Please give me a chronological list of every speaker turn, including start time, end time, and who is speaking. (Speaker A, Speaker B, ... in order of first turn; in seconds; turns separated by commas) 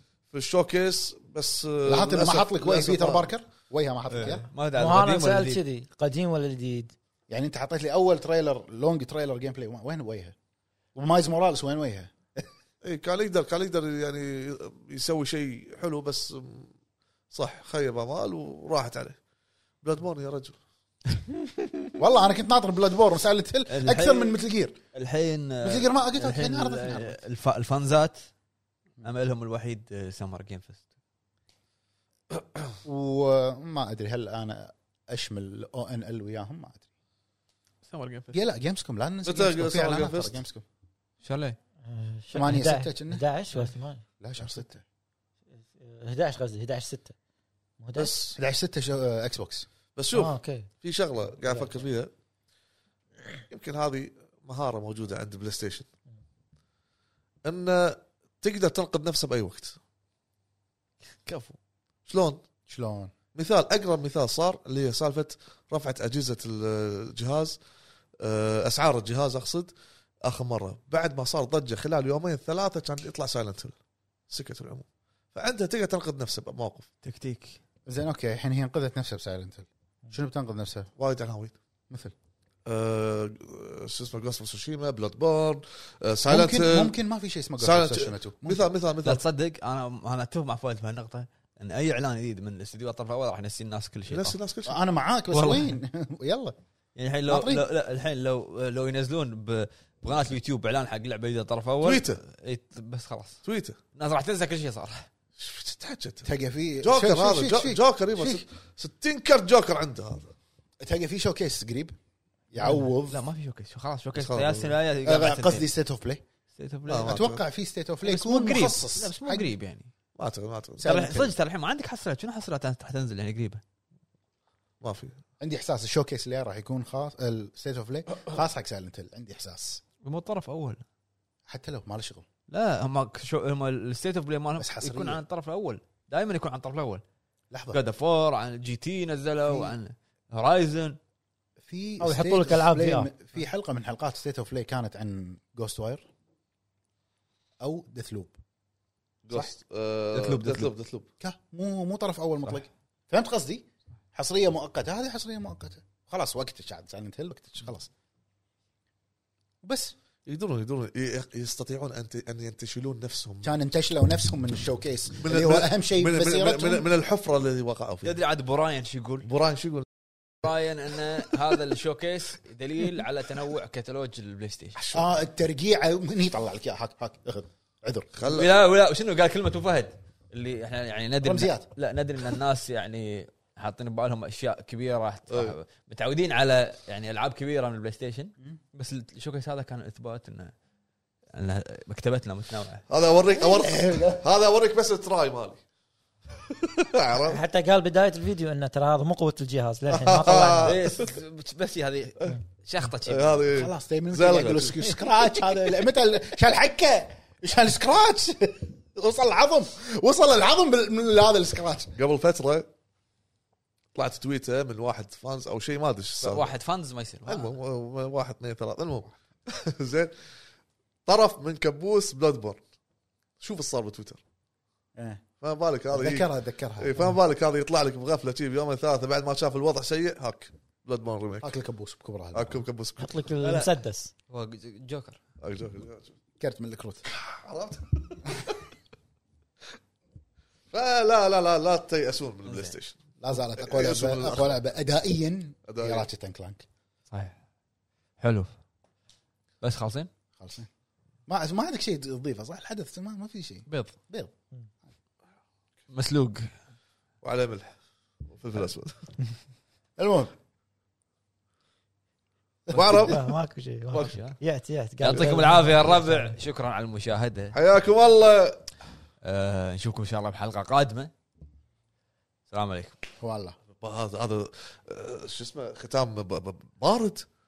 Speaker A: 0.3-3.3, Speaker B: 1.9-4.5, Speaker C: 4.1-5.6, Speaker D: 4.8-6.9, Speaker B: 7.3-10.3, Speaker B: 10.9-12.5, Speaker A: 12.8-16.7, Speaker A: 17.3-19.2, Speaker A: 19.8-20.6, Speaker B: 22.0-24.8, Speaker C: 23.7-24.4, Speaker C: 24.9-28.2, Speaker B: 25.6-27.2, Speaker C: 29.0-30.8, Speaker B: 32.8-36.8, Speaker C: 37.9-38.4, Speaker B: 38.3-40.6, Speaker A: 39.2-40.4, Speaker C: 41.2-41.6, Speaker D: 41.8-44.0, Speaker B: 42.3-43.2, Speaker B: 44.2-44.8, Speaker D: 45.7-47.1, Speaker D: 47.8-48.3, Speaker B: 48.3-49.7, Speaker A: 50.0-52.1, Speaker D: 50.1-50.7, Speaker A: 53.5-55.9, Speaker A: 57.5-59.8, Speaker A: 62.1-62.4, Speaker B: 62.7-63.1, Speaker A: 63.4-67.6, Speaker A: 68.2-69.7, Speaker A: 70.2-73.8, Speaker A: 74.3-76.9, Speaker C: 77.0-77.6, Speaker B: 77.9-80.9, Speaker A: 81.0-81.6, Speaker A: 82.7-86.9, Speaker B: 86.3-88.7, Speaker A: 87.6-89.2, Speaker C: 89.0-94.4, Speaker A: 94.1-94.7, Speaker B: 94.7-96.5, Speaker C: 95.3-95.8, Speaker C: 97.0-103.4, Speaker B: 97.3-97.7, Speaker A: 101.8-102.2, Speaker A: 103.5-103.8, Speaker C: 103.9-105.1, Speaker A: 105.4-106.3, Speaker B: 106.2-108.4, Speaker A: 106.8-110.3, Speaker B: 110.8-112.0, Speaker B: 112.5-113.2, Speaker C: 112.6-115.6, Speaker A: 114.2-114.7, Speaker B: 115.0-116.2, Speaker C: 116.6-117.2, Speaker A: 116.9-117.4, Speaker B: 117.0-119.5, Speaker C: 118.0-119.9, Speaker A: 120.2-120.9, Speaker B: 120.8-121.4, Speaker C: 120.8-123.6, Speaker A: 124.8-125.2, Speaker B: 125.4-129.8, Speaker C: 130.0-130.8, Speaker B: 131.5-132.3, Speaker C: 132.5-137.0, Speaker B: 134.6-135.2, Speaker B: 137.5-137.8, Speaker C: 137.7-141.0, Speaker B: 139.5-139.7, Speaker B: 141.6-146.1, Speaker D: 142.0-143.1, Speaker B: 147.6-148.4, Speaker A: 149.2-151.1, Speaker C: 150.1-150.7, Speaker B: 151.2-157.9, Speaker B: 159.6-159.9, Speaker A: 160.3-163.5, Speaker B: 163.4-166.9, Speaker A: 165.2-168.2, Speaker C: 168.0-169.3, Speaker A: 169.2-169.9, Speaker C: 170.4-174.8, Speaker A: 174.8-175.1, Speaker B: 174.9-178.1, Speaker A: 178.2-178.5, Speaker C: 178.3-190.5, Speaker B: 181.2-181.7, Speaker A: 185.3-185.6, Speaker C: 191.3-192.8, Speaker A: 192.9-195.6, Speaker B: 193.4-194.2, Speaker A: 196.5-197.4, Speaker D: 197.3-200.8, Speaker A: 199.9-201.2, Speaker C: 200.6-203.7, Speaker A: 203.1-204.9, Speaker B: 203.5-211.9, Speaker A: 212.0-212.7, Speaker A: 213.9-216.5, Speaker C: 216.2-217.6, Speaker A: 217.3-220.1, Speaker A: 221.1-222.6, Speaker A: 223.4-224.2, Speaker B: 225.0-225.2, Speaker A: 225.4-231.5, Speaker B: 225.9-227.0, Speaker B: 231.4-232.6, Speaker A: 232.3-233.1, Speaker D: 233.0-234.1, Speaker C: 233.4-233.7, Speaker C: 234.3-235.2, Speaker A: 235.4-236.1, Speaker B: 236.4-237.0, Speaker A: 237.1-238.6, Speaker A: 240.7-243.0, Speaker C: 242.4-242.7, Speaker B: 243.2-246.7, Speaker A: 243.6-244.6, Speaker A: 245.7-246.1, Speaker C: 248.2-248.5, Speaker C: 249.6-250.1, Speaker B: 250.4-250.7, Speaker B: 251.3-254.3, Speaker C: 253.7-253.9, Speaker C: 255.9-256.5, Speaker A: 257.2-257.7, Speaker A: 258.2-259.0, Speaker B: 260.0-260.3, Speaker B: 262.7-263.0, Speaker A: 262.7-263.3, Speaker D: 263.0-266.3, Speaker C: 263.9-264.4, Speaker C: 265.0-267.6, Speaker A: 267.5-268.6, Speaker C: 269.2-271.1, Speaker C: 272.5-272.9, Speaker B: 273.2-273.6, Speaker A: 273.8-277.2